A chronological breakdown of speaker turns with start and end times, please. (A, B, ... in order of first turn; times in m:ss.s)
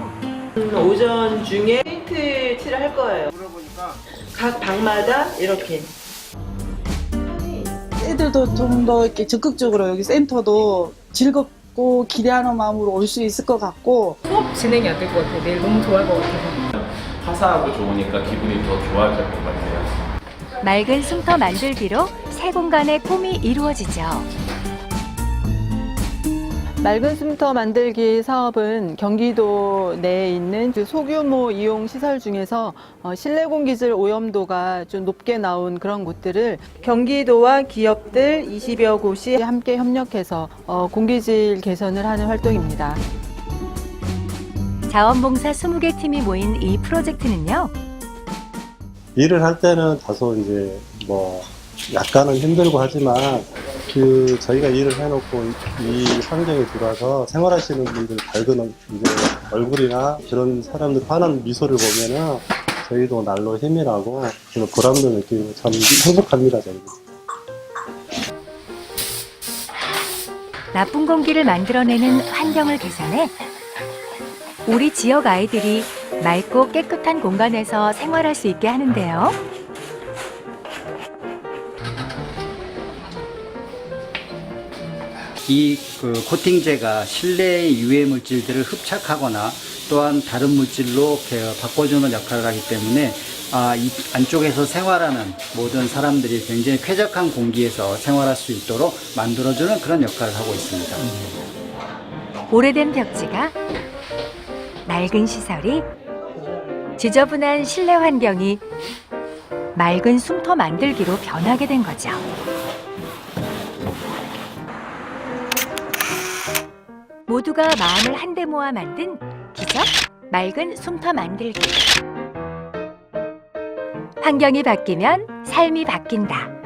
0:00.6-0:03.3 A
0:04.3-0:05.9 A
0:08.0-0:14.2 B
0:14.4-0:16.5 C
0:16.8-0:20.0 D
0:20.6-0:24.3 E
0:26.8-0:43.0 F
0:44.9-0:47.7 E
0:49.2-1:07.0 G
1:10.7-1:13.3 E
1:14.7-1:19.4 E
1:25.5-1:41.2 H
1:42.5-1:43.6 E
1:44.9-1:45.9 E
1:47.0-1:48.6 E
1:49.8-1:52.2 E
1:57.3-2:01.8 E
2:04.2-2:06.5 E